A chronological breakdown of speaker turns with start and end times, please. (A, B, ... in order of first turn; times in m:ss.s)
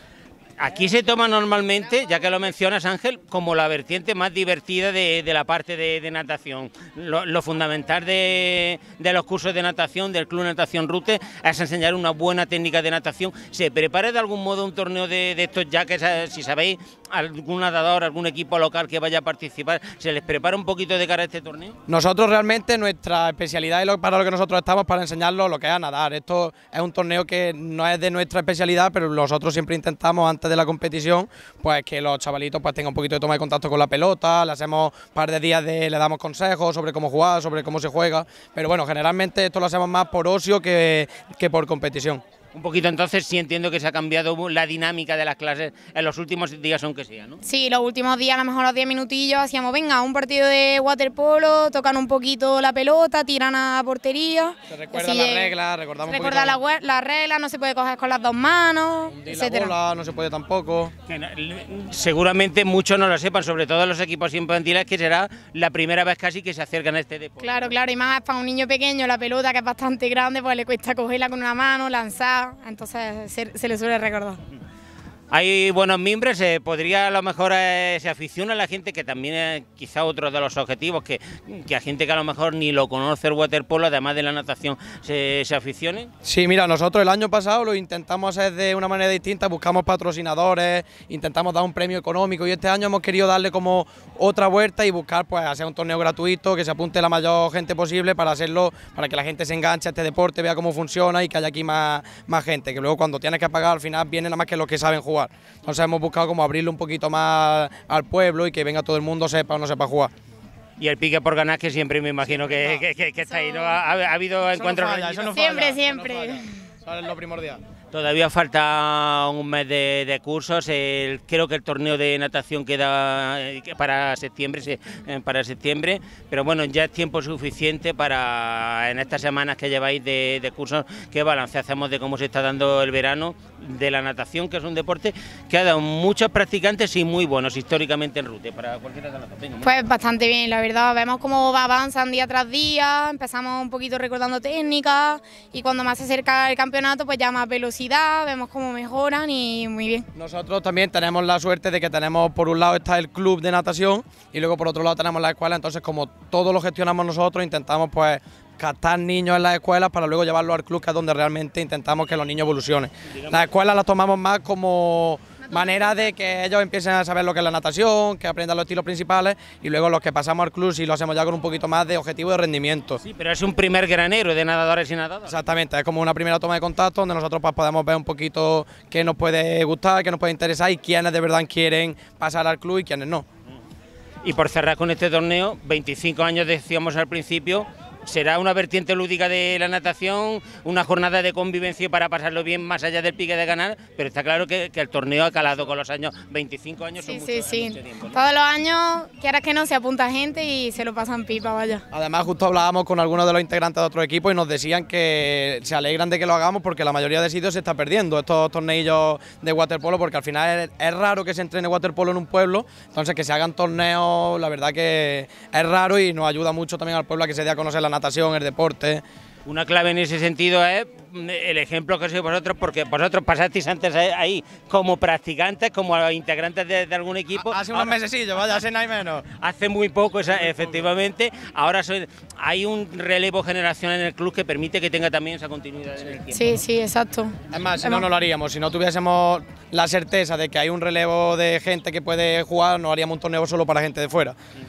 0:00.6-0:21.8 A
0:21.9-0:42.2 B
0:42.5-0:47.4 A
0:47.4-0:55.5 C
0:54.7-0:56.6 B
0:56.0-0:59.7 C
0:59.1-1:00.9 B
1:01.0-1:07.7 A
1:07.4-1:14.4 C
1:15.3-1:26.1 A
1:26.2-1:50.1 B
1:50.8-1:55.6 A
1:52.2-1:52.8 B
1:53.3-1:53.8 C
1:54.5-1:57.6 B
1:55.3-1:56.6 C
1:57.9-2:19.8 A
2:19.6-2:30.1 C
2:30.1-2:53.0 B
2:43.1-2:43.4 A
2:45.5-2:46.2 C
2:53.0-2:55.4 A
2:55.2-3:03.2 B
3:04.2-3:18.2 A
3:17.0-3:21.8 C
3:21.9-3:39.0 B
3:39.4-3:48.0 A
3:47.3-3:49.2 B
3:49.4-3:56.6 A
3:56.3-3:58.0 C
3:57.5-4:04.4 B